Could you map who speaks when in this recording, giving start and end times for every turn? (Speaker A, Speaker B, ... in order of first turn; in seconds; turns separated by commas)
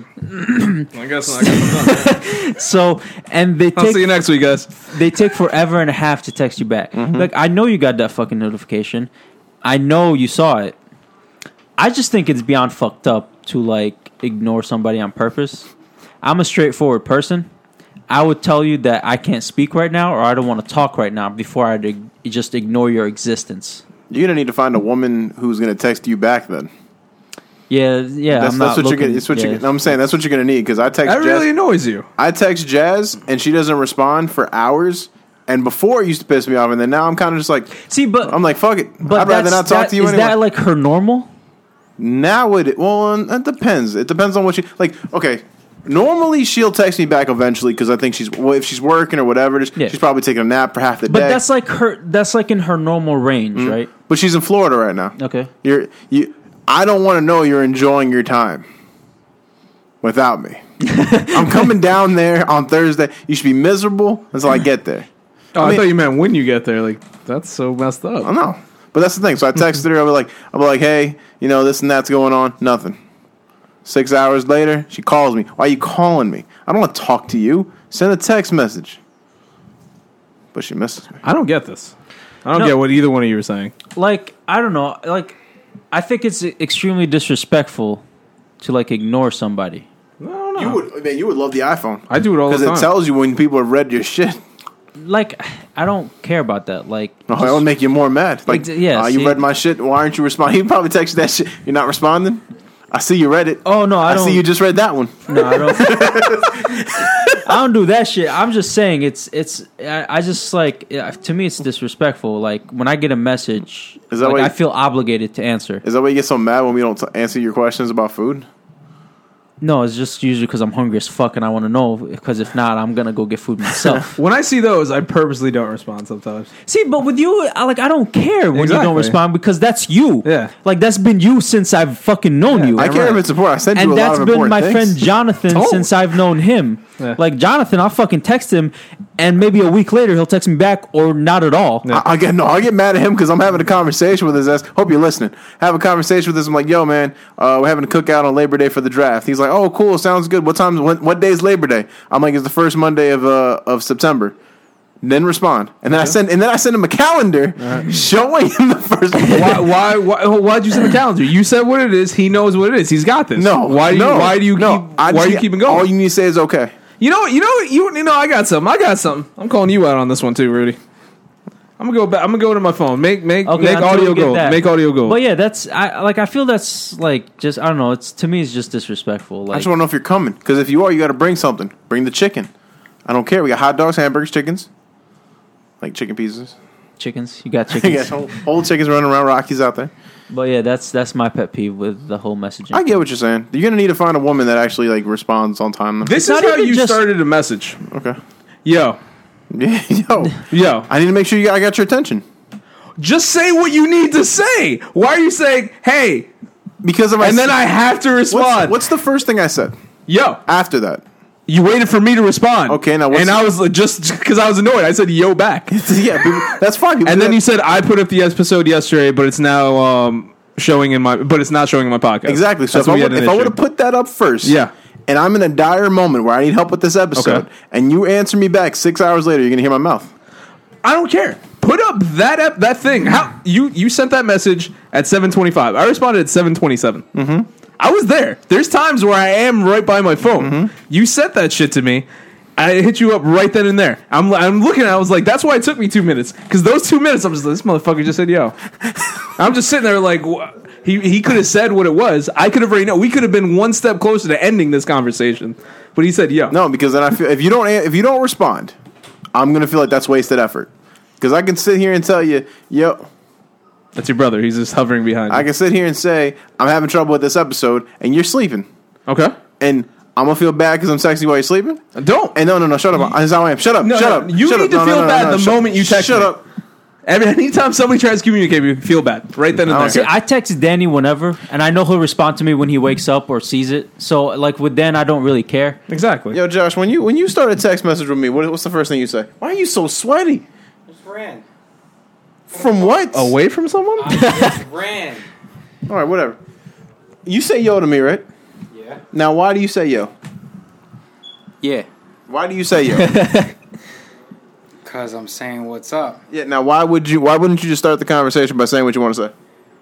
Speaker A: 0.2-4.1, Speaker B: 0.9-2.1, Speaker B: 3.8-4.8, Speaker A: 4.8-9.1, Speaker C: 7.0-7.3, Speaker A: 9.6-10.8, Speaker A: 11.8-15.7, Speaker A: 16.2-17.5, Speaker A: 18.1-23.8, Speaker C: 24.1-26.7, Speaker A: 27.7-29.6, Speaker C: 28.3-31.5, Speaker B: 31.1-32.1, Speaker C: 32.2-40.4, Speaker A: 37.8-38.4, Speaker A: 39.0-41.3, Speaker C: 42.0-51.4, Speaker A: 51.1-53.9, Speaker C: 53.5-58.6, Speaker A: 55.2-55.5, Speaker C: 60.0-60.6, Speaker A: 60.8-61.7, Speaker C: 61.3-65.8, Speaker B: 65.5-68.3, Speaker C: 68.2-73.0, Speaker C: 73.8-79.0, Speaker C: 80.5-81.2, Speaker B: 81.2-81.9, Speaker B: 82.5-83.7, Speaker A: 84.0-85.4, Speaker A: 85.9-88.0, Speaker A: 88.6-89.9, Speaker B: 90.2-90.8, Speaker C: 90.6-94.4, Speaker B: 92.1-92.9, Speaker A: 95.0-97.7, Speaker C: 97.3-107.2, Speaker A: 98.5-99.4, Speaker A: 103.7-104.5, Speaker A: 105.3-106.4, Speaker A: 107.4-115.8, Speaker C: 114.1-114.5, Speaker C: 115.8-118.5, Speaker A: 119.6-124.1, Speaker C: 123.8-124.0, Speaker B: 124.2-126.5, Speaker A: 126.7-133.2, Speaker B: 128.5-129.2, Speaker B: 130.2-130.5, Speaker B: 132.5-132.8, Speaker C: 132.8-135.0, Speaker A: 133.7-141.9, Speaker B: 135.5-135.9, Speaker C: 141.9-154.3, Speaker C: 155.0-159.7, Speaker B: 157.6-157.9, Speaker B: 159.3-165.9, Speaker C: 163.4-166.7, Speaker B: 167.0-170.8, Speaker B: 171.8-175.2, Speaker A: 173.5-179.7, Speaker C: 179.5-182.5, Speaker C: 183.1-184.7, Speaker C: 185.8-186.5, Speaker A: 187.0-188.4, Speaker C: 187.7-189.9, Speaker A: 190.3-193.0, Speaker C: 192.7-196.2, Speaker B: 196.0-197.8, Speaker A: 196.2-197.0, Speaker C: 197.9-198.2, Speaker B: 198.7-199.0, Speaker C: 199.5-202.2, Speaker B: 200.5-200.9, Speaker B: 203.0-206.3, Speaker C: 206.8-207.6, Speaker B: 207.2-208.8, Speaker C: 208.3-209.8, Speaker B: 210.1-210.4, Speaker C: 210.5-211.0, Speaker B: 211.5-215.8, Speaker C: 212.7-213.4, Speaker C: 215.7-217.4, Speaker B: 217.1-223.6, Speaker C: 222.3-230.1, Speaker B: 224.4-224.7, Speaker B: 227.2-227.5, Speaker B: 230.8-237.1, Speaker C: 237.1-237.5, Speaker B: 237.8-242.1, Speaker C: 240.4-240.7, Speaker B: 242.6-248.6, Speaker B: 249.3-256.6, Speaker C: 256.5-258.7, Speaker C: 259.3-263.1, Speaker B: 264.0-265.5, Speaker C: 265.3-268.7, Speaker B: 269.1-269.4, Speaker C: 269.6-271.8, Speaker B: 272.0-272.4, Speaker C: 272.3-276.4, Speaker B: 273.8-276.4, Speaker B: 277.1-280.1, Speaker C: 279.7-280.1, Speaker A: 279.7-285.8, Speaker B: 285.9-286.4, Speaker C: 286.3-290.4, Speaker D: 290.9-291.4, Speaker D: 292.5-293.1, Speaker C: 292.5-293.3, Speaker B: 293.1-294.2, Speaker D: 294.0-295.3, Speaker A: 294.1-294.6, Speaker C: 295.9-296.4, Speaker C: 297.3-298.3, Speaker D: 298.7-299.0, Speaker C: 299.1-300.1, Speaker D: 301.6-301.9, Speaker C: 302.3-303.1, Speaker A: 302.9-303.5, Speaker D: 304.8-306.2, Speaker C: 306.3-309.3